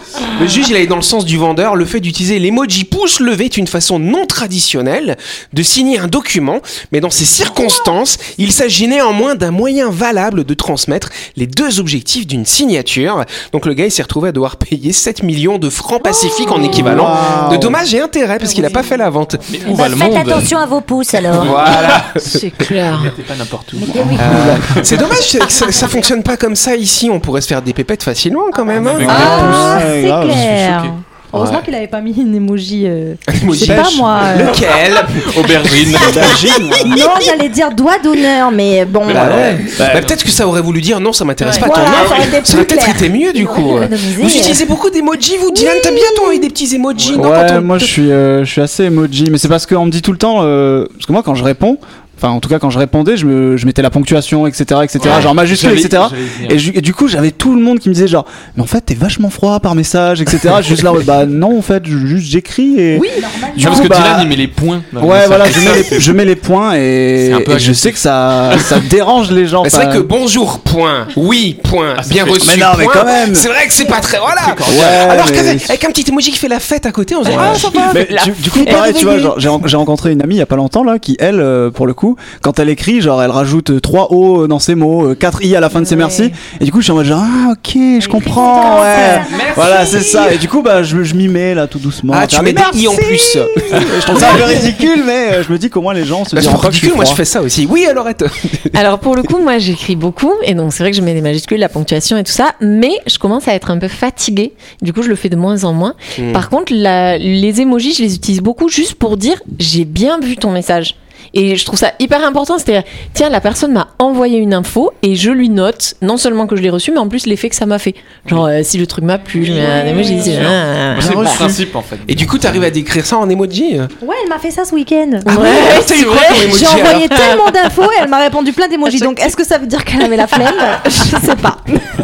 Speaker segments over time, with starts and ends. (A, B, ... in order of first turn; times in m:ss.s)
0:00.2-0:19.5 A
0:16.7-0:17.8 B
0:19.5-0:20.5 C
0:19.6-0:21.6 D
0:21.3-0:22.1 C
0:21.4-0:22.4 A
0:22.2-0:23.1 E
0:22.9-0:25.0 C
0:23.8-0:24.5 F
0:23.9-0:24.8 B
0:24.2-0:29.6 A
0:28.7-0:29.8 C
0:29.0-0:30.7 B
0:29.0-0:34.8 F
0:30.5-0:30.9 C
0:31.3-0:31.6 A
0:33.3-0:36.6 A
0:33.6-0:34.0 B
0:35.2-0:36.6 C
0:36.0-0:37.0 B
0:36.8-0:39.5 F
0:39.0-0:40.3 C
0:39.1-0:47.6 A
0:39.4-0:40.1 B
0:41.4-0:44.7 F
0:41.5-0:42.3 C
0:45.5-0:46.5 F
0:46.9-0:47.2 C
0:47.2-1:04.4 B
0:55.0-0:56.6 C
1:03.0-1:04.0 F
1:03.5-1:06.1 C
1:05.0-1:10.1 B
1:07.2-1:08.8 C
1:09.6-1:18.9 A
1:12.0-1:12.7 C
1:12.4-1:13.5 B
1:14.2-1:15.1 C
1:14.7-1:15.7 B
1:17.2-1:37.2 B
1:17.3-1:17.6 C
1:17.7-1:19.3 E
1:25.8-1:26.2 F
1:28.0-1:30.0 F
1:29.2-1:30.3 C
1:32.1-1:34.6 A
1:36.3-1:38.7 A
1:38.7-2:01.4 E
1:46.2-1:46.4 A
1:59.5-2:00.4 F
1:59.6-2:02.7 C
2:01.0-2:01.6 B
2:02.1-2:03.9 A
2:04.0-2:05.3 F
2:05.2-2:07.4 E
2:05.2-2:07.2 A
2:06.4-2:11.8 F
2:10.8-2:11.3 E